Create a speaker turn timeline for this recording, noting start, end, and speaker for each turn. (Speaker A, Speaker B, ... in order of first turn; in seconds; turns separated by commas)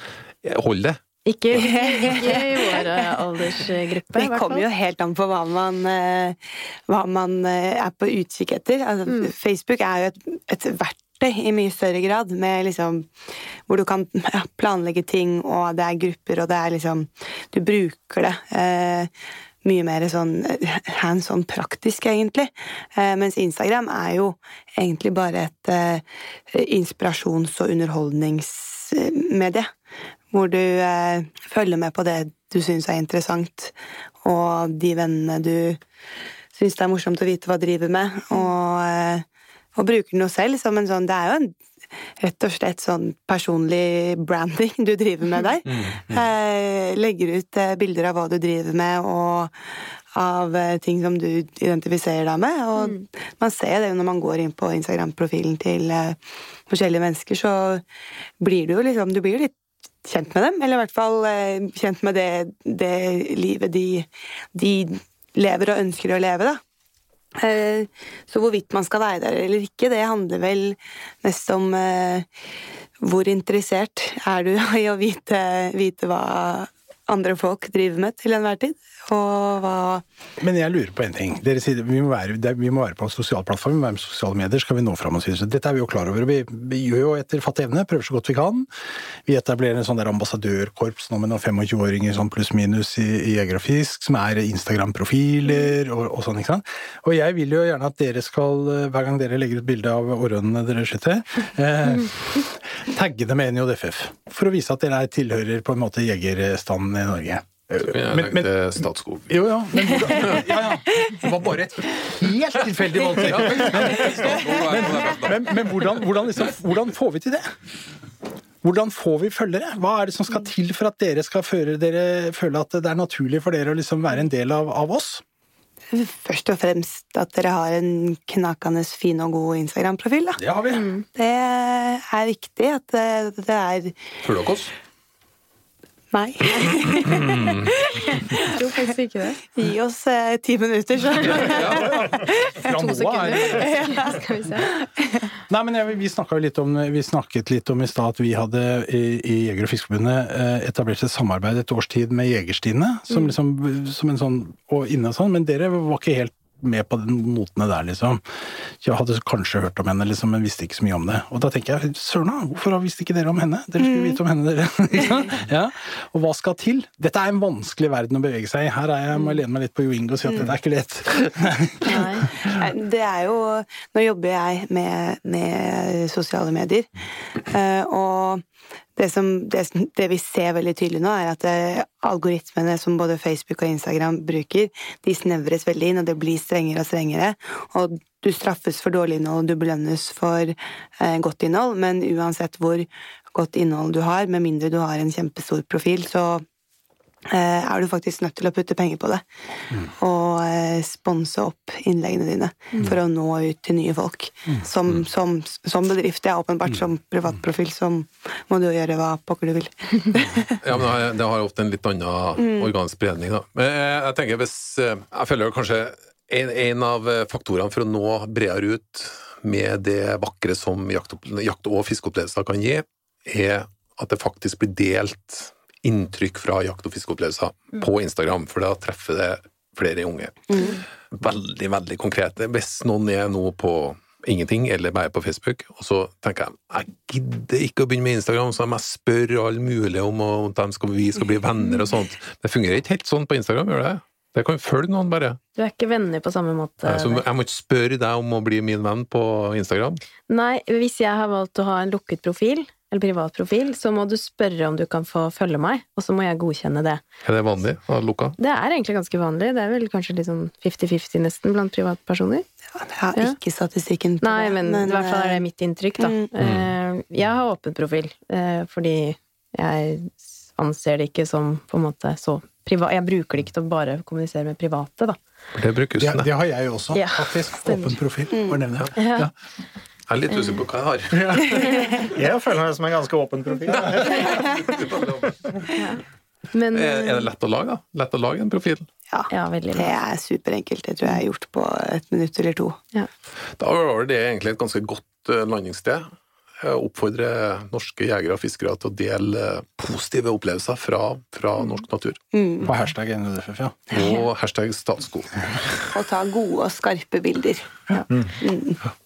Speaker A: 0.4-1.0, Speaker B: 1.2-4.7, Speaker A: 1.5-2.2, Speaker C: 1.5-3.1, Speaker C: 4.1-13.1, Speaker C: 13.7-19.1, Speaker C: 19.6-29.7, Speaker C: 30.3-35.8, Speaker C: 36.5-39.2, Speaker C: 39.8-41.6, Speaker C: 42.2-49.5, Speaker A: 45.7-46.1, Speaker C: 50.1-57.8, Speaker C: 58.4-66.6, Speaker C: 67.4-72.3, Speaker C: 73.0-80.0, Speaker D: 80.4-88.7, Speaker D: 89.2-108.5, Speaker A: 107.8-110.4, Speaker D: 109.3-117.5, Speaker A: 113.1-115.7, Speaker D: 118.6-125.2, Speaker C: 125.9-130.4, Speaker D: 130.4-130.8, Speaker B: 130.7-131.0, Speaker C: 131.1-134.0, Speaker A: 134.2-134.7, Speaker C: 136.1-138.7, Speaker A: 137.0-137.7, Speaker B: 138.5-139.4, Speaker C: 139.5-142.7, Speaker A: 141.3-142.1, Speaker D: 142.6-143.8, Speaker B: 142.7-144.7, Speaker C: 143.4-145.3, Speaker D: 145.5-158.2, Speaker D: 158.8-172.0, Speaker C: 163.8-164.2, Speaker C: 171.8-178.4, Speaker B: 171.8-172.3, Speaker C: 178.9-196.4, Speaker C: 197.3-199.2, Speaker C: 199.9-210.6, Speaker A: 210.6-245.4, Speaker C: 212.4-212.7, Speaker C: 230.5-230.8, Speaker B: 245.6-247.2, Speaker A: 246.8-250.0, Speaker B: 250.3-257.0, Speaker A: 257.2-258.4, Speaker B: 258.4-262.4, Speaker C: 262.8-265.4, Speaker B: 264.2-275.2, Speaker C: 266.0-266.3, Speaker A: 266.4-266.7, Speaker A: 275.5-276.3, Speaker D: 276.0-279.3, Speaker B: 276.9-278.0, Speaker C: 278.3-278.6, Speaker B: 278.9-279.3, Speaker A: 280.1-281.8, Speaker D: 281.1-281.7, Speaker E: 282.0-284.3, Speaker A: 284.0-285.3, Speaker B: 285.8-286.0, Speaker B: 286.5-287.3, Speaker A: 286.7-288.9, Speaker C: 289.1-292.8, Speaker B: 289.3-289.9, Speaker A: 293.6-302.2, Speaker C: 302.3-302.7, Speaker D: 302.6-304.0, Speaker A: 303.9-305.9, Speaker C: 305.9-308.8, Speaker E: 308.1-308.4